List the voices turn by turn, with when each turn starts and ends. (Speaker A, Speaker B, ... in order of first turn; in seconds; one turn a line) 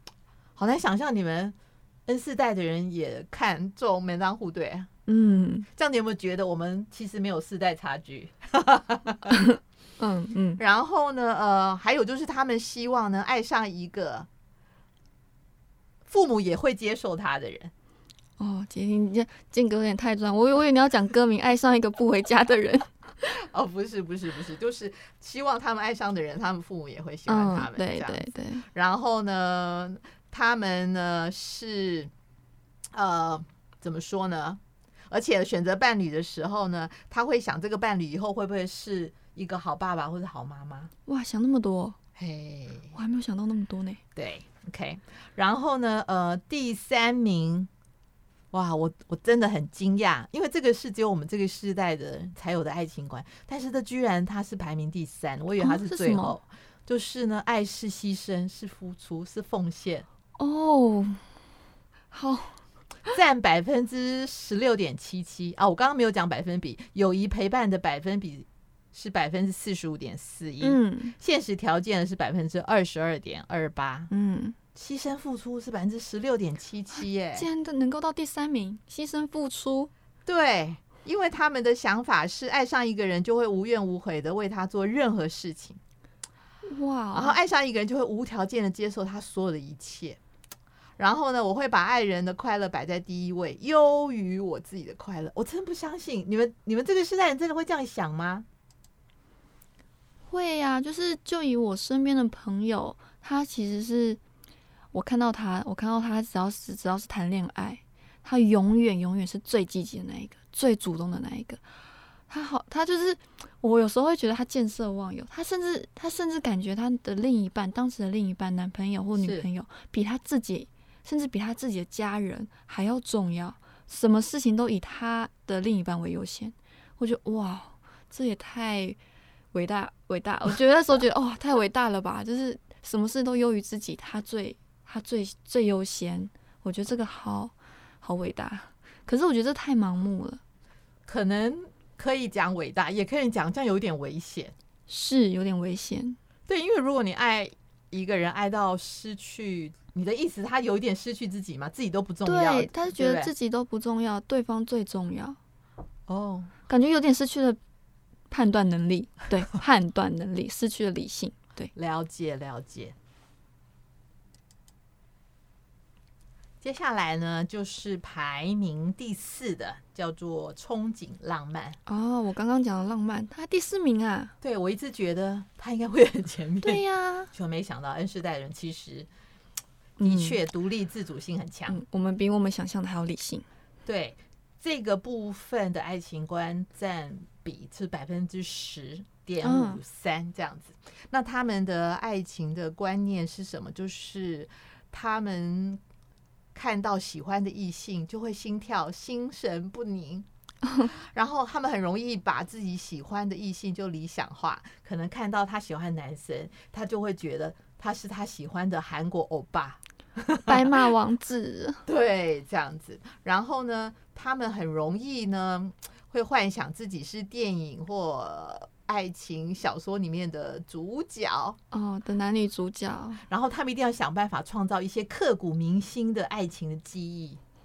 Speaker A: 0.6-1.6
Speaker A: 2.1-4.9
Speaker B: 5.1-5.7
Speaker A: 5.8-9.4
Speaker B: 9.3-10.6
Speaker A: 10.6-14.3
Speaker A: 16.1-17.7
Speaker B: 18.4-22.9
Speaker A: 23.2-32.1
Speaker B: 27.3-28.7
Speaker A: 32.9-40.9
Speaker B: 41.1-42.0
Speaker A: 42.2-43.0
Speaker B: 42.9-44.0
Speaker A: 44.1-47.7
Speaker A: 48.5-60.1
Speaker B: 55.6-56.4
Speaker B: 60.4-61.2
Speaker B: 62.1-62.6
Speaker A: 63.1-74.1
Speaker B: 70.6-71.2
Speaker B: 74.1-74.6
Speaker A: 74.8-77.5
Speaker B: 77.3-79.9
Speaker A: 80.3-85.8
Speaker B: 86.7-87.4
Speaker A: 87.1-90.2
Speaker A: 91.0-98.5
Speaker B: 100.3-104.2
Speaker B: 104.9-111.6
Speaker B: 112.3-129.0
Speaker A: 119.2-119.5
Speaker B: 129.5-140.4
Speaker A: 141.1-144.5
Speaker B: 144.9-146.2
Speaker A: 146.5-153.3
Speaker B: 152.2-155.4
Speaker A: 156.1-156.5
Speaker B: 156.7-157.6
Speaker B: 158.3-161.7
Speaker A: 161.8-162.9
Speaker A: 166.6-171.8
Speaker B: 171.9-174.3
Speaker A: 174.4-179.1
Speaker B: 176.6-177.3
Speaker B: 180.0-180.4
Speaker A: 180.0-181.8
Speaker B: 181.7-183.5
Speaker A: 183.9-195.8
Speaker B: 189.4-189.8
Speaker A: 196.6-200.3
Speaker A: 200.8-210.6
Speaker B: 210.5-211.8
Speaker A: 211.9-221.6
Speaker B: 221.7-223.2
Speaker A: 223.3-227.4